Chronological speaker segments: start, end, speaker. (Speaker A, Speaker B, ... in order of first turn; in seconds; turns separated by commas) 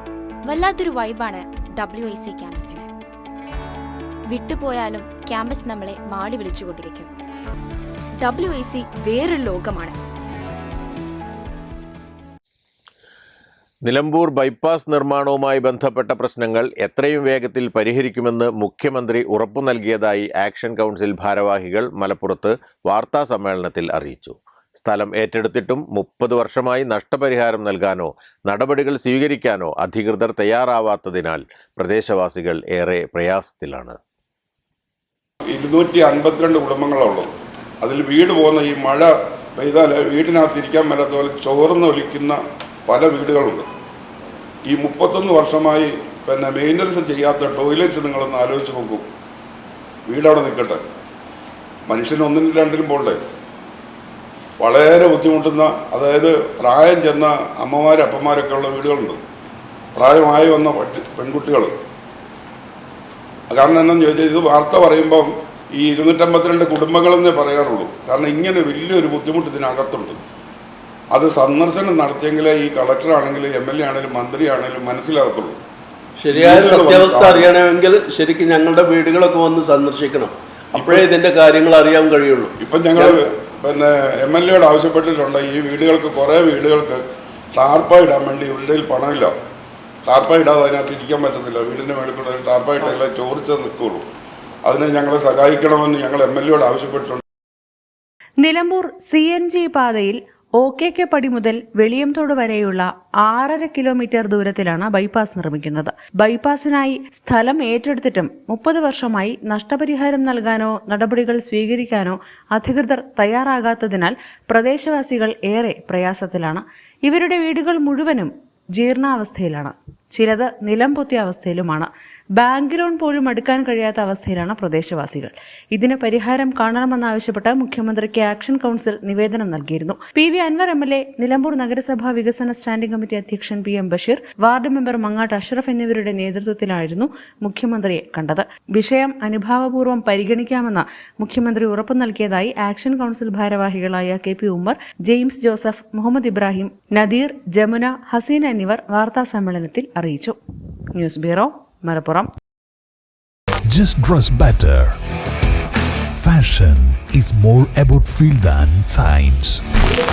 Speaker A: 0.5-2.9, Speaker A: 4.3-7.1, Speaker A: 8.2-10.0, Speaker B: 13.8-34.0, Speaker C: 35.5-37.3, Speaker C: 37.8-43.7, Speaker C: 44.7-49.1, Speaker C: 50.1-50.8, Speaker C: 51.9-53.2, Speaker C: 54.6-59.2, Speaker C: 60.0-61.7, Speaker C: 63.5-70.2, Speaker C: 71.1-75.6, Speaker D: 76.2-83.2, Speaker C: 76.3-77.5, Speaker C: 80.7-81.1, Speaker C: 82.6-87.0, Speaker C: 87.5-89.3, Speaker C: 90.1-94.0, Speaker C: 94.7-97.2, Speaker E: 98.4-150.3, Speaker E: 151.0-152.3, Speaker F: 153.7-154.9, Speaker F: 156.1-159.6